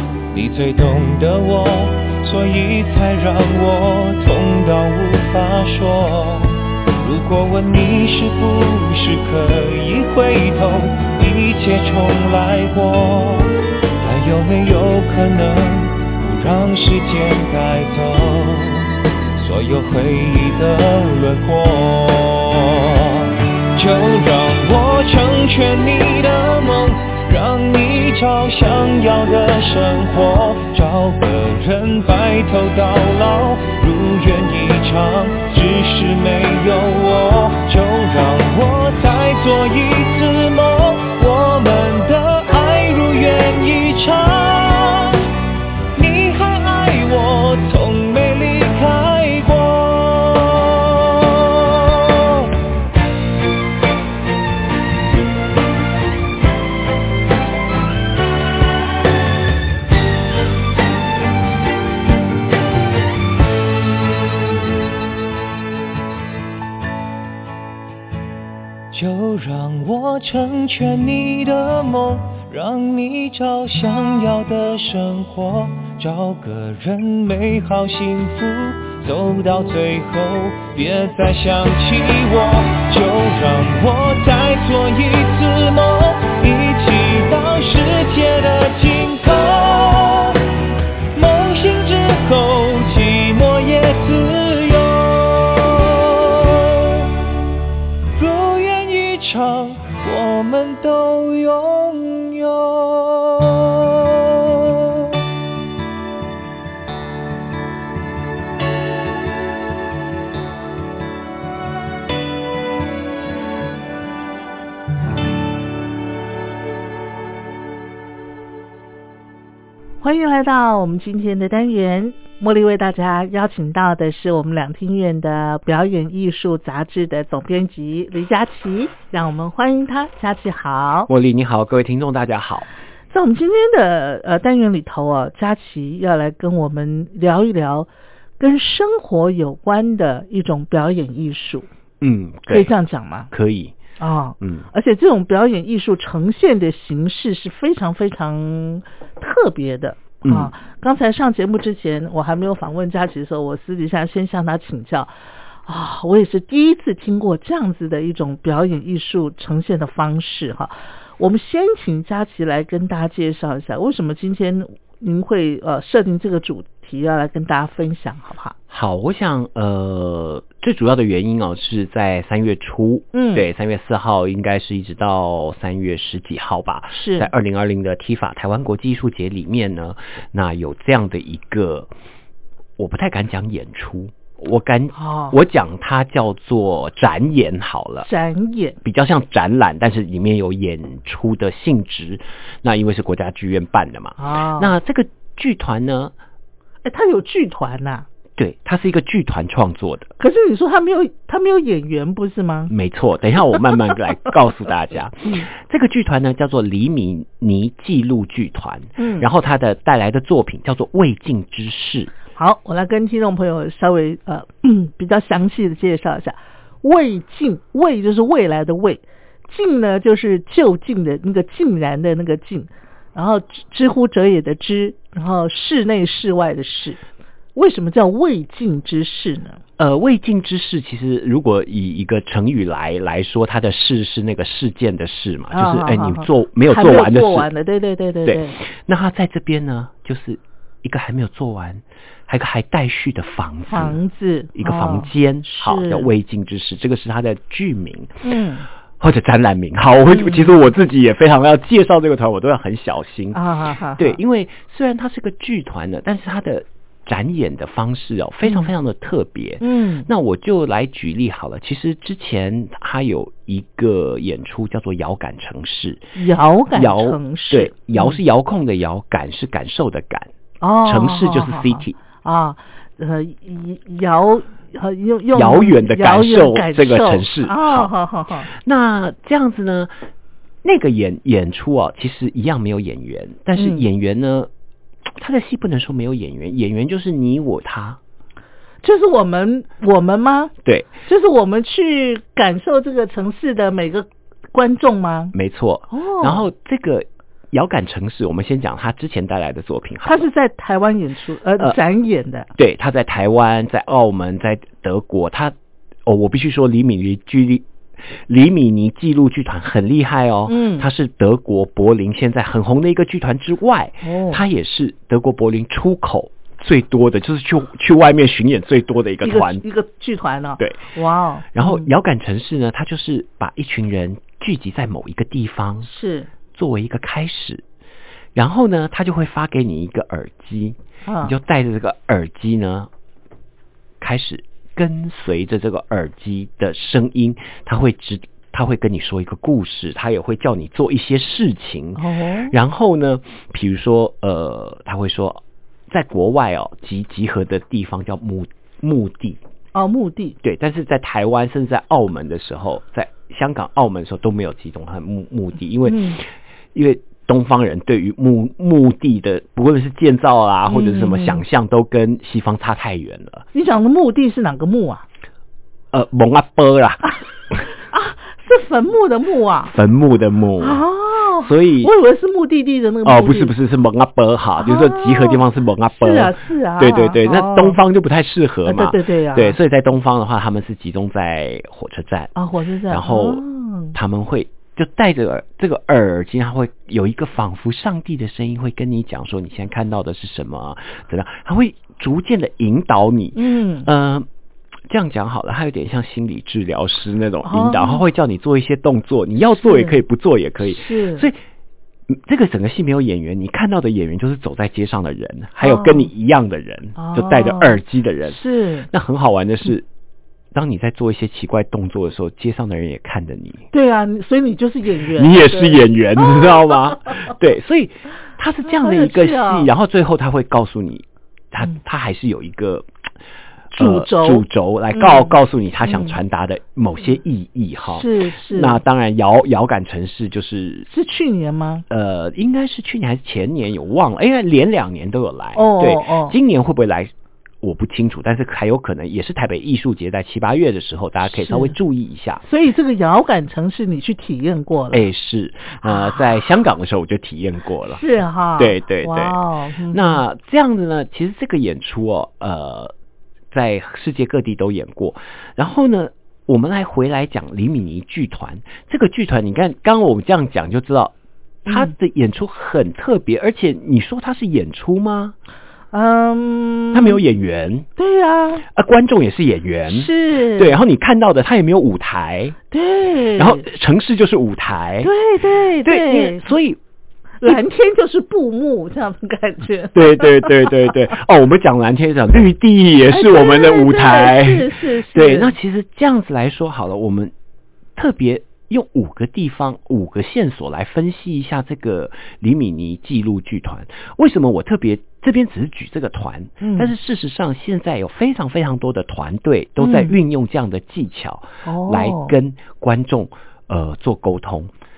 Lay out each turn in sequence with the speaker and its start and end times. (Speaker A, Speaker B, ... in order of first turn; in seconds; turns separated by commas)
Speaker A: 0.3-45.3, Speaker A: 46.0-52.5, Speaker A: 68.9-90.4, Speaker A: 91.1-97.1, Speaker A: 98.2-105.2, Speaker B: 120.0-131.1, Speaker C: 131.1-132.7, Speaker B: 133.1-137.9, Speaker B: 138.4-141.7, Speaker C: 142.0-142.7, Speaker B: 142.5-143.3, Speaker C: 143.3-143.8, Speaker B: 144.0-155.1, Speaker C: 144.4-144.7, Speaker C: 150.2-150.5, Speaker B: 155.7-168.6, Speaker C: 168.7-181.9, Speaker B: 173.1-173.5, Speaker B: 176.9-177.3, Speaker C: 182.8-188.1, Speaker B: 184.9-185.3, Speaker B: 188.0-188.8, Speaker C: 188.8-196.1, Speaker B: 194.2-194.7, Speaker B: 196.8-198.1, Speaker C: 198.4-200.1, Speaker B: 200.2-202.7, Speaker C: 202.7-212.1, Speaker B: 209.0-209.3, Speaker B: 212.4-227.0, Speaker B: 227.6-229.6, Speaker C: 229.8-237.5, Speaker B: 235.5-238.6, Speaker C: 238.2-244.0, Speaker B: 243.7-246.1, Speaker C: 244.5-248.2, Speaker B: 248.2-248.7, Speaker C: 249.0-253.4, Speaker B: 250.1-250.5, Speaker B: 253.3-254.2, Speaker C: 254.0-266.0, Speaker B: 258.4-258.7, Speaker B: 259.6-260.1, Speaker B: 266.2-268.2, Speaker C: 266.7-270.3, Speaker B: 270.6-278.5, Speaker C: 270.8-272.0, Speaker C: 275.3-277.9, Speaker C: 278.5-279.9, Speaker C: 280.6-284.5, Speaker B: 283.6-283.9, Speaker C: 285.2-288.0, Speaker B: 288.8-290.5, Speaker C: 290.6-290.9, Speaker B: 291.1-295.3, Speaker C: 295.3-300.3, Speaker B: 295.9-296.5, Speaker B: 300.0-302.5, Speaker C: 302.6-305.5, Speaker C: 306.1-307.7, Speaker C: 308.3-319.7, Speaker B: 310.5-310.9, Speaker B: 314.0-314.4, Speaker B: 319.2-321.9, Speaker C: 321.5-325.9, Speaker B: 325.8-326.3, Speaker C: 326.5-327.6, Speaker C: 328.4-332.9, Speaker B: 331.1-331.3, Speaker C: 334.0-349.4, Speaker B: 342.0-342.5, Speaker B: 349.7-350.4, Speaker C: 350.4-363.5, Speaker B: 355.9-356.2, Speaker B: 360.7-361.4, Speaker B: 363.5-365.1, Speaker C: 365.9-367.6, Speaker B: 367.8-369.7, Speaker C: 369.6-370.8, Speaker B: 370.6-373.6, Speaker C: 371.4-371.9, Speaker C: 373.1-382.3, Speaker B: 374.6-377.8, Speaker B: 378.7-379.6, Speaker B: 382.4-384.0, Speaker C: 382.9-383.4, Speaker C: 383.9-394.3, Speaker B: 393.4-393.9, Speaker C: 394.9-401.4, Speaker B: 397.4-398.0, Speaker B: 399.6-400.0, Speaker B: 400.7-401.3, Speaker C: 402.1-409.9, Speaker B: 405.6-406.1, Speaker B: 407.0-408.9, Speaker C: 410.5-413.7, Speaker B: 413.7-416.7, Speaker C: 415.0-422.9, Speaker B: 418.6-419.7, Speaker B: 423.7-426.2, Speaker C: 423.8-430.9, Speaker B: 427.9-428.8, Speaker B: 430.9-431.8, Speaker C: 431.9-437.1, Speaker B: 435.6-436.4, Speaker C: 437.6-442.4, Speaker B: 441.3-441.7, Speaker B: 442.4-445.1, Speaker C: 444.9-448.0, Speaker B: 445.8-446.3, Speaker B: 447.9-450.2, Speaker C: 448.6-449.4, Speaker C: 449.9-452.9, Speaker C: 453.5-461.1, Speaker C: 461.6-465.4, Speaker B: 461.7-461.9, Speaker B: 465.9-467.2, Speaker C: 466.9-467.9, Speaker B: 468.0-468.7, Speaker C: 468.6-472.6, Speaker B: 469.9-470.8, Speaker B: 472.7-473.7, Speaker C: 473.4-475.1, Speaker B: 475.0-476.5, Speaker C: 475.8-476.8, Speaker B: 477.4-480.9, Speaker C: 479.9-487.3, Speaker B: 483.1-485.5, Speaker C: 488.0-504.7, Speaker B: 496.6-496.9, Speaker B: 499.8-500.2, Speaker B: 501.6-502.4